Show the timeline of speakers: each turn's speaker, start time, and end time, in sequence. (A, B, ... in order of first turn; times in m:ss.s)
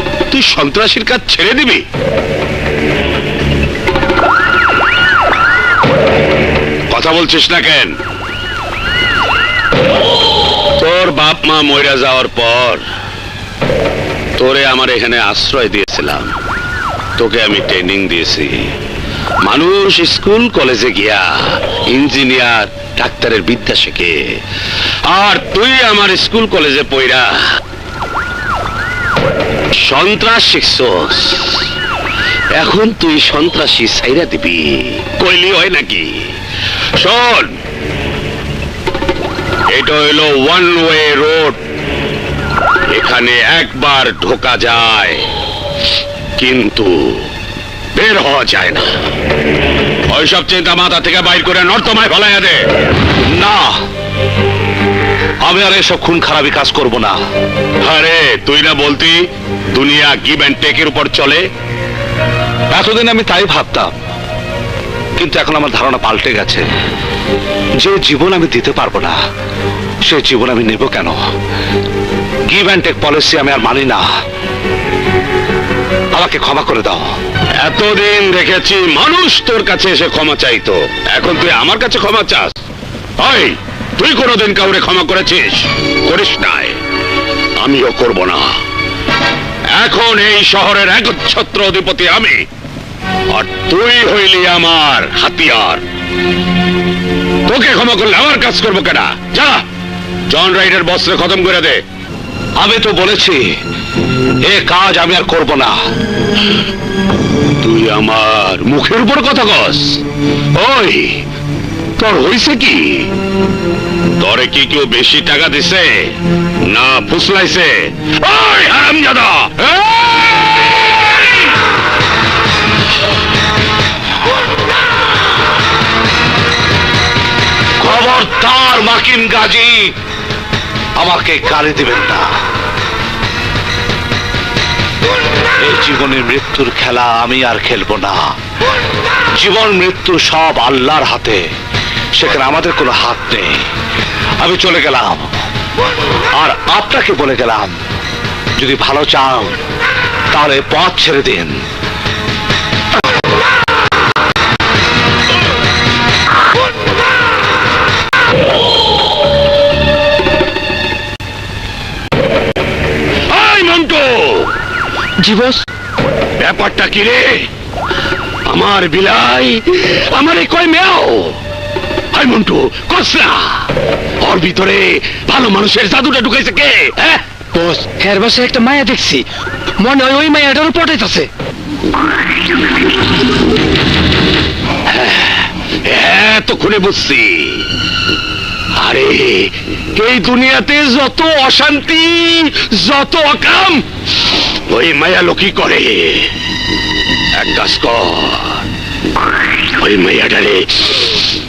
0:00.3-0:01.8 A
0:06.9-0:07.9 A
0:10.8-0:12.8 A
0:14.4-0:16.3 A
0:17.2-0:18.7 A
0:19.4-0:24.3 A
0:25.1-0:27.3 A
0:29.8-0:31.6 A
0:32.6-0:36.3 A
0:37.0-0:37.5 A
0:39.7-0:41.6 A
0:42.9-0:45.2 A
0:46.4-0:47.2 A
0:47.9-0:48.9 A
0:50.1-0:52.6 A
0:53.3-0:53.8 B
0:55.4-0:57.2 B
0:57.8-0:59.2 A
0:59.7-1:01.5 A
1:02.7-1:03.9 B
1:05.2-1:06.7 B
1:07.8-1:09.2 B
1:10.0-1:11.2 B
1:12.5-1:14.1 B
1:16.1-1:17.1 B
1:17.6-1:22.5 A
1:23.2-1:26.8 A
1:27.6-1:28.6 A
1:29.7-1:32.4 A
1:33.3-1:35.8 A
1:37.4-1:39.6 A
1:40.3-1:41.8 A
1:42.6-1:43.5 B
1:44.4-1:45.8 B
1:47.6-1:50.0 A
1:50.5-1:51.2 A
1:52.0-1:53.1 A
1:54.2-1:56.1 A
1:56.6-2:01.4 A
2:07.8-2:09.9 B
2:11.0-2:12.3 B
2:15.6-2:18.3 B
2:19.4-2:21.4 B
2:22.2-2:23.7 B
2:24.4-2:25.4 B
2:26.3-2:27.8 B
2:28.6-2:29.6 B
2:30.3-2:31.6 B
2:43.3-2:44.5 A
2:45.2-2:45.6 C
2:46.4-2:47.5 A
2:48.4-2:51.4 A
2:52.1-2:53.7 A
2:54.2-2:57.2 A
2:57.5-2:59.2 C
2:59.8-3:01.3 C
3:04.9-3:07.7 A
3:08.8-3:13.8 A
3:14.7-3:16.3 A
3:17.3-3:18.6 A
3:19.8-3:21.2 A